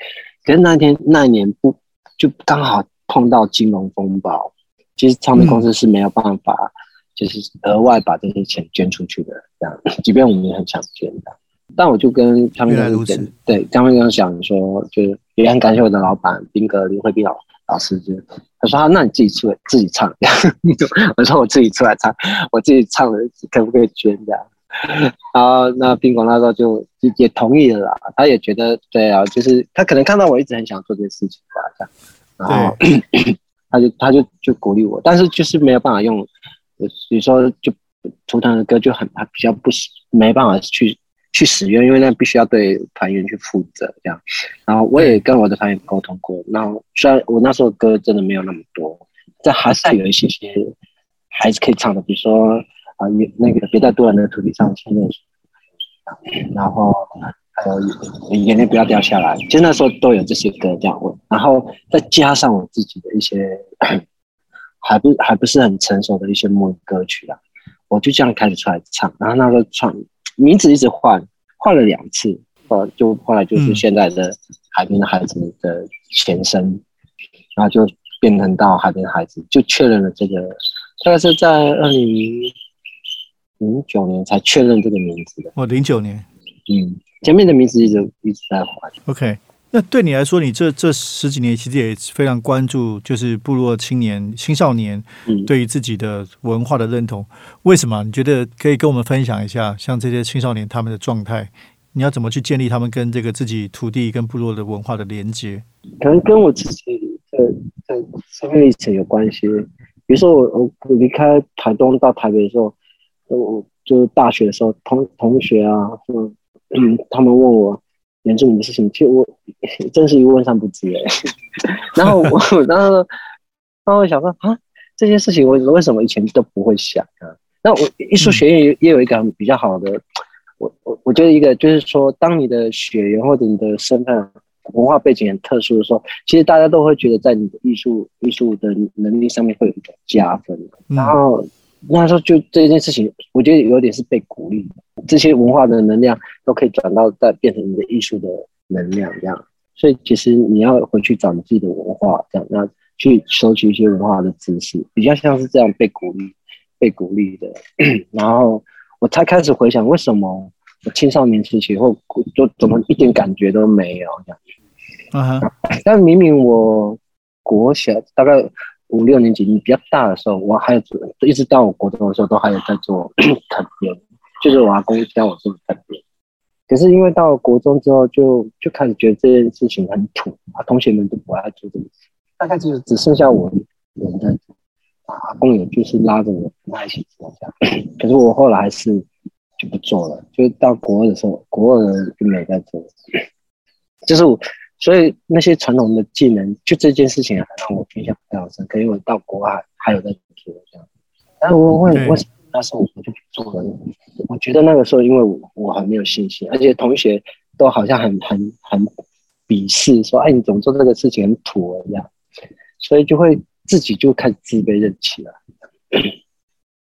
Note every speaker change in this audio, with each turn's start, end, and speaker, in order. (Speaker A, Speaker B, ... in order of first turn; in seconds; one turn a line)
Speaker A: 0.4-50.7
Speaker B: 5.4-5.7
Speaker B: 12.7-13.3
Speaker B: 32.5-32.8
Speaker A: 51.3-55.2
Speaker A: 56.1-64.0
Speaker A: 64.8-76.8
Speaker B: 73.5-73.8
Speaker A: 77.5-82.5
Speaker A: 83.6-85.5
Speaker B: 85.5-86.2
Speaker A: 86.7-88.9
Speaker B: 89.0-105.6
Speaker A: 106.0-112.7
Speaker A: 113.3-123.1
Speaker B: 122.0-122.3
Speaker A: 123.8-130.0
Speaker A: 130.6-164.4
Speaker B: 140.9-141.2
Speaker B: 165.1-165.5
Speaker A: 165.4-176.0
Speaker A: 176.7-184.4
Speaker A: 185.1-189.0
Speaker A: 189.6-193.2
Speaker A: 194.1-200.8
Speaker A: 201.4-208.9
Speaker B: 201.9-202.2
Speaker A: 209.5-212.1
Speaker A: 212.8-216.2